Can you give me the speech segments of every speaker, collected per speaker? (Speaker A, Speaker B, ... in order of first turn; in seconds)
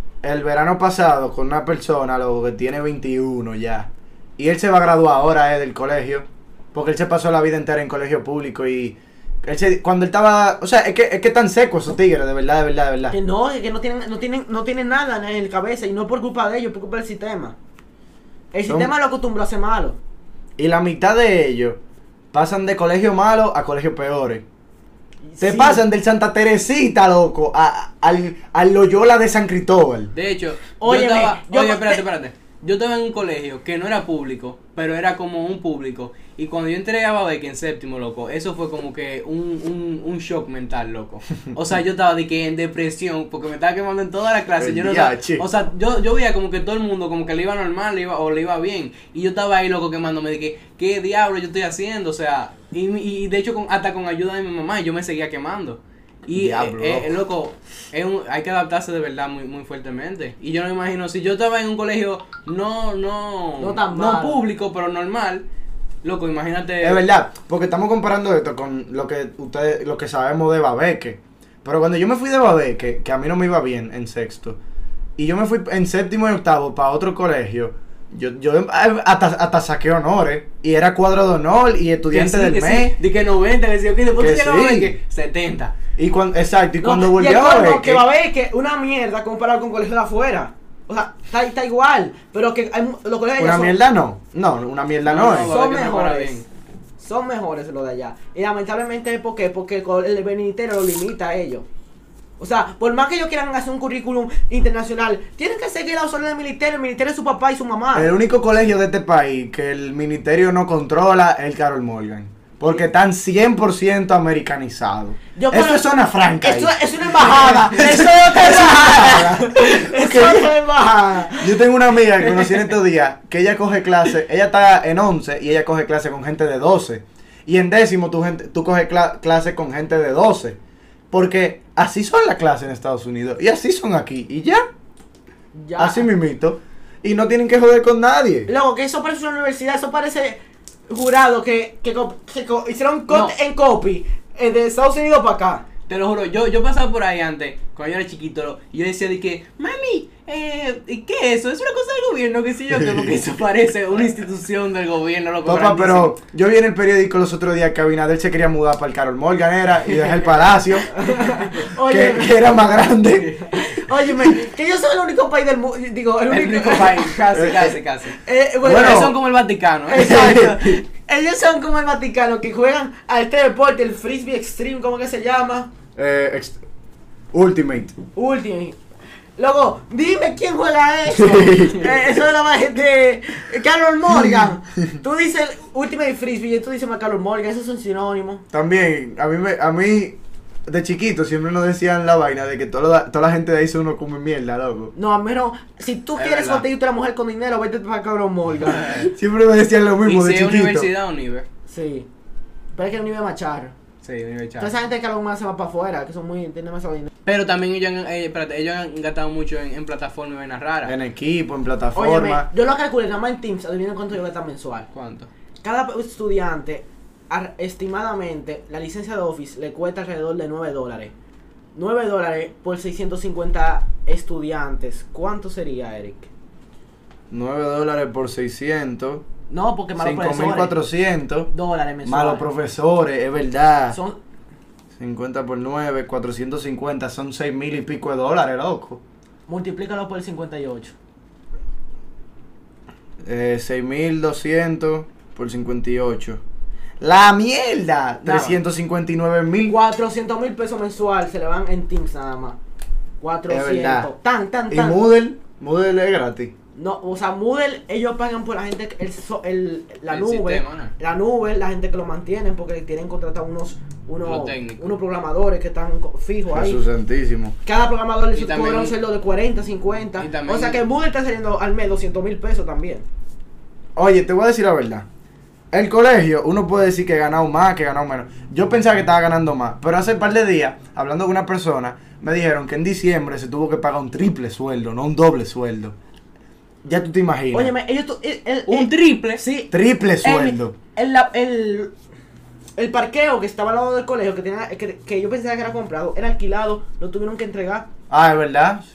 Speaker A: 0.2-13.2, 18.7-18.9, 20.6-21.8, 22.3-24.4, 25.4-30.1, 44.6-45.5, 56.4-57.1, 66.8-74.6, 75.2-83.0, 84.2-85.0, 86.0-88.1, 93.4-95.5, 107.9-120.5, 121.4-130.6, 131.1-134.6, 135.8-138.5, 152.7-153.2, 155.5-160.9, 161.8-163.5, 167.3-167.7, 168.6-169.2, 170.0-170.8, 176.0-176.6, 177.3-178.0, 181.2-181.9, 188.5-194.9, 199.1-200.9, 210.8-212.5, 227.3-229.2, 230.0-231.5, 232.1-234.0, 235.0-239.0, 243.2-246.4, 247.0-249.8, 253.5-254.1, 254.7-256.5, 266.5-267.6, 274.0-275.1, 275.7-285.9, 286.8-287.7, 289.7-290.8, 298.1-298.9
Speaker B: 13.1-17.6, 18.5-20.0, 25.3-25.8, 30.8-32.0, 63.6-64.4, 86.8-93.8, 95.4-96.5, 97.0-101.7, 102.4-108.1, 115.3-115.9, 116.4-121.6, 135.5-136.1, 138.5-145.7, 161.0-162.6, 163.5-167.5, 168.2-169.2, 169.9-175.7, 178.2-178.8, 179.4-188.4, 194.9-199.1, 201.7-202.1, 202.7-203.8, 204.6-207.1, 211.9-214.9, 215.6-221.1, 221.8-226.3, 229.5-230.8, 231.5-232.5, 233.9-234.2, 239.5-240.9, 248.2-248.6, 249.7-252.6, 253.2-255.0, 256.8-266.8, 267.6-273.1, 287.5-291.9, 292.8-297.9
Speaker C: 30.1-65.5, 66.0-67.0, 82.1-85.8, 95.0-96.5, 143.1-143.4, 145.9-156.2, 161.2-161.5, 166.3-170.2, 196.2-196.6, 198.7-199.1, 200.1-201.5, 204.0-204.7, 207.3-210.9, 214.9-215.3, 260.1-260.9, 264.2-265.0, 268.3-268.9, 270.2-270.8, 288.7-289.4